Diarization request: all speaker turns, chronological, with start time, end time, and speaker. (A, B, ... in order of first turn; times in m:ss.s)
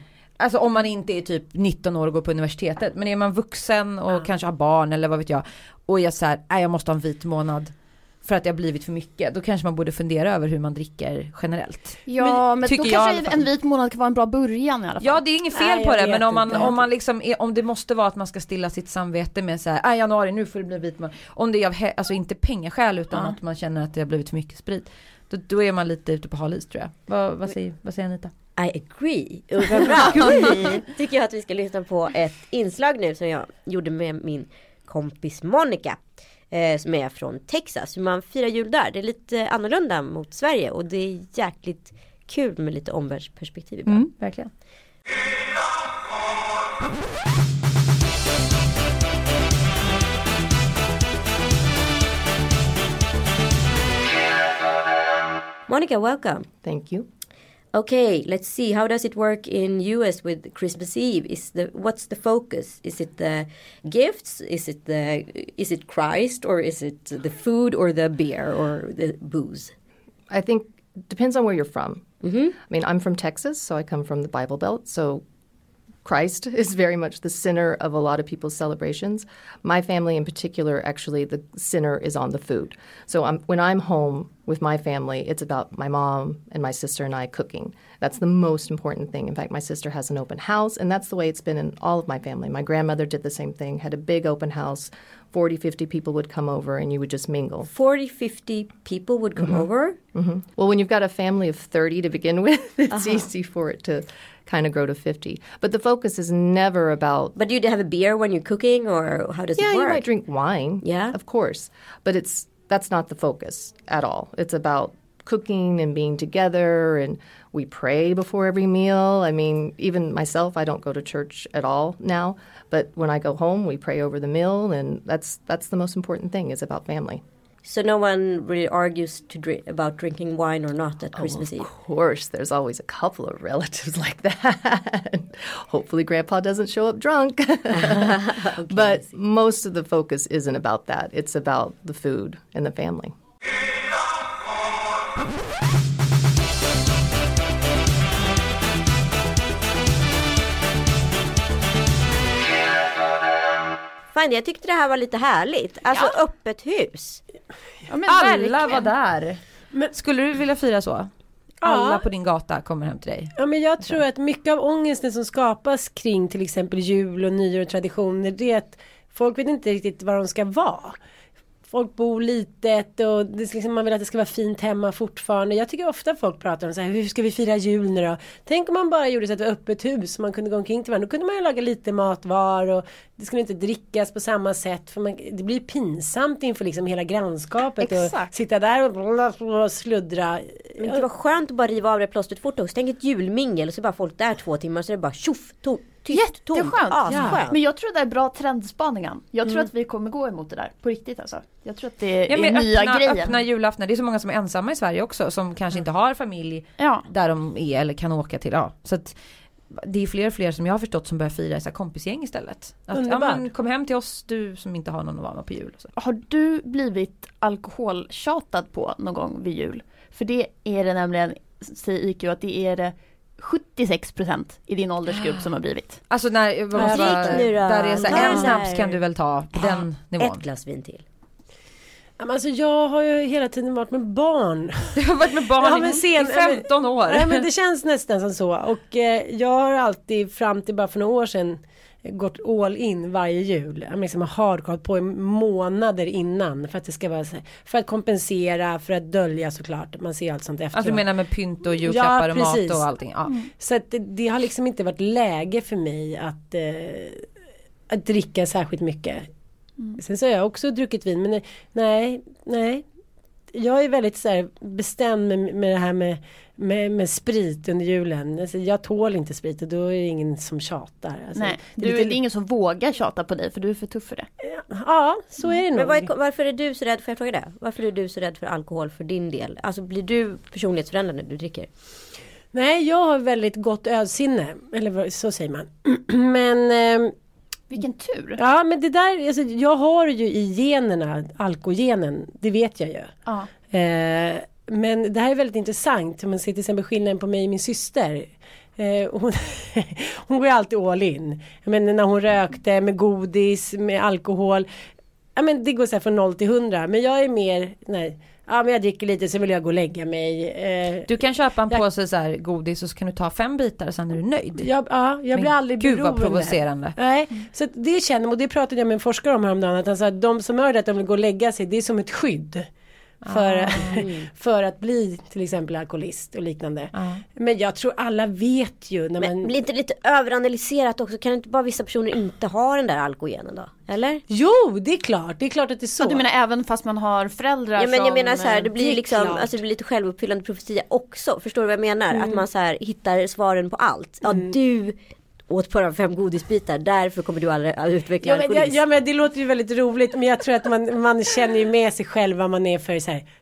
0:00.4-0:13.4 A
0:12.1-0:15.2 B
0:15.0-0:28.3 A
0:15.5-0:16.8 C
0:28.6-0:44.1 D
0:30.1-0:30.6 A
0:43.9-0:44.5 A
0:55.7-0:56.5 D
0:56.6-0:57.1 E
0:57.7-1:09.7 D
1:10.3-1:12.1 E
1:12.2-1:12.5 D
1:12.6-1:15.2 E
1:16.0-1:37.7 E
1:37.7-1:40.0 D
1:39.4-1:47.3 E
1:42.9-1:43.3 D
1:47.3-1:50.1 D
1:49.6-2:07.2 E
1:50.8-1:51.2 D
2:07.6-2:11.7 D
2:11.2-2:23.2 E
2:17.7-2:19.1 D
2:34.1-2:37.2 D
2:35.9-2:36.2 B
2:37.9-2:38.9 B
2:38.1-2:41.1 A
2:41.6-2:42.0 C
2:41.6-2:44.0 A
2:43.3-2:51.0 C
2:51.7-3:11.0 C
3:07.8-3:08.3 B
3:10.8-3:17.6 D
3:16.1-3:23.4 B
3:17.1-3:17.4 C
3:22.3-3:29.2 A
3:26.8-3:27.0 B
3:29.7-3:35.9 A
3:32.9-3:33.5 C
3:36.0-3:46.0 B
3:45.1-3:50.4 A
3:46.8-3:49.0 D
3:46.9-3:47.5 C
3:48.0-3:48.6 C
3:49.6-3:51.0 D
3:52.2-3:55.0 C
3:55.0-3:57.4 A
3:55.6-4:11.1 C
4:10.7-4:13.3 A
4:11.8-4:12.9 C
4:13.6-4:17.3 C
4:17.9-4:19.3 C
4:20.0-4:22.8 C
4:23.5-4:32.2 C
4:31.3-4:34.3 B
4:34.4-4:36.1 C
4:35.7-4:41.7 D
4:42.5-4:47.1 C
4:47.7-4:48.4 B
4:48.4-4:53.1 C
4:53.7-5:04.7 C
5:05.4-5:11.1 C
5:11.1-5:14.7 A
5:14.6-5:22.7 C
5:15.3-5:16.9 A
5:23.2-5:24.0 A
5:23.3-5:29.5 C
5:23.9-5:24.3 D
5:26.9-5:27.2 A
5:29.2-5:34.2 D
5:34.3-5:36.2 C
5:36.0-5:38.7 B
5:37.8-5:45.0 D
5:38.7-5:39.6 C
5:42.1-5:42.4 C
5:44.2-5:44.5 C
5:45.5-5:48.8 D
5:48.2-5:53.3 C